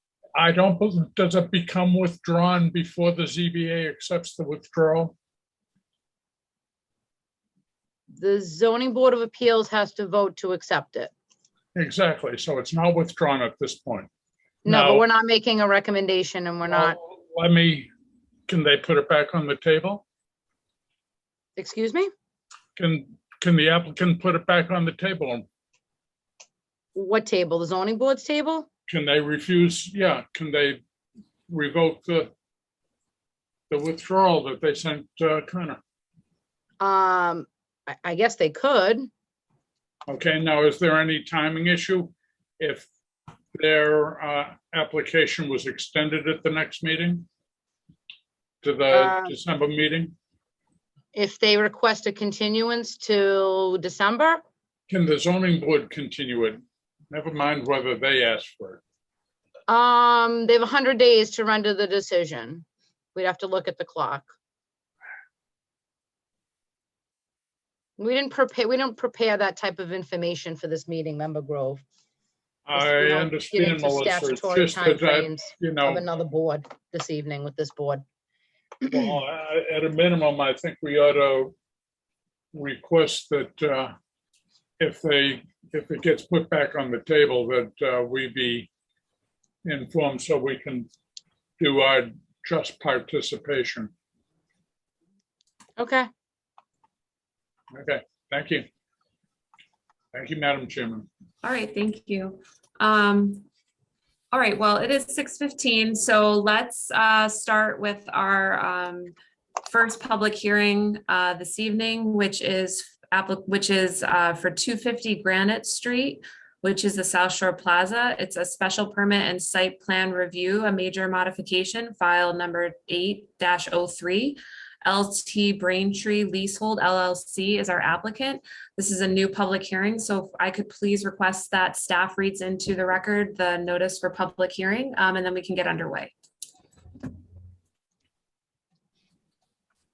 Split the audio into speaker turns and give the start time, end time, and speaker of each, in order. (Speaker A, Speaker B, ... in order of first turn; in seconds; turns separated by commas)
Speaker A: 0.3-5.2, Speaker B: 8.2-11.1, Speaker A: 11.8-14.1, Speaker B: 14.7-17.0, Speaker A: 14.7-15.1, Speaker A: 16.7-17.9, Speaker A: 18.5-20.0, Speaker B: 21.6-22.1, Speaker A: 22.8-25.5, Speaker B: 26.9-28.7, Speaker A: 28.9-30.8, Speaker A: 31.5-32.3, Speaker A: 33.7-35.8, Speaker B: 36.8-39.1, Speaker A: 40.1-42.9, Speaker A: 43.5-47.3, Speaker A: 48.6-50.1, Speaker B: 48.9-49.4, Speaker B: 51.1-54.4, Speaker A: 54.9-58.8, Speaker B: 59.7-64.3, Speaker B: 68.0-71.8, Speaker A: 72.7-76.0, Speaker B: 72.8-78.0, Speaker A: 78.9-81.5, Speaker A: 82.5-83.9, Speaker A: 84.8-88.7, Speaker A: 89.6-90.9, Speaker A: 91.6-93.9, Speaker B: 95.8-96.1, Speaker A: 97.7-98.7, Speaker A: 100.1-101.1, Speaker C: 101.4-103.5, Speaker C: 104.3-109.2, Speaker C: 109.7-136.1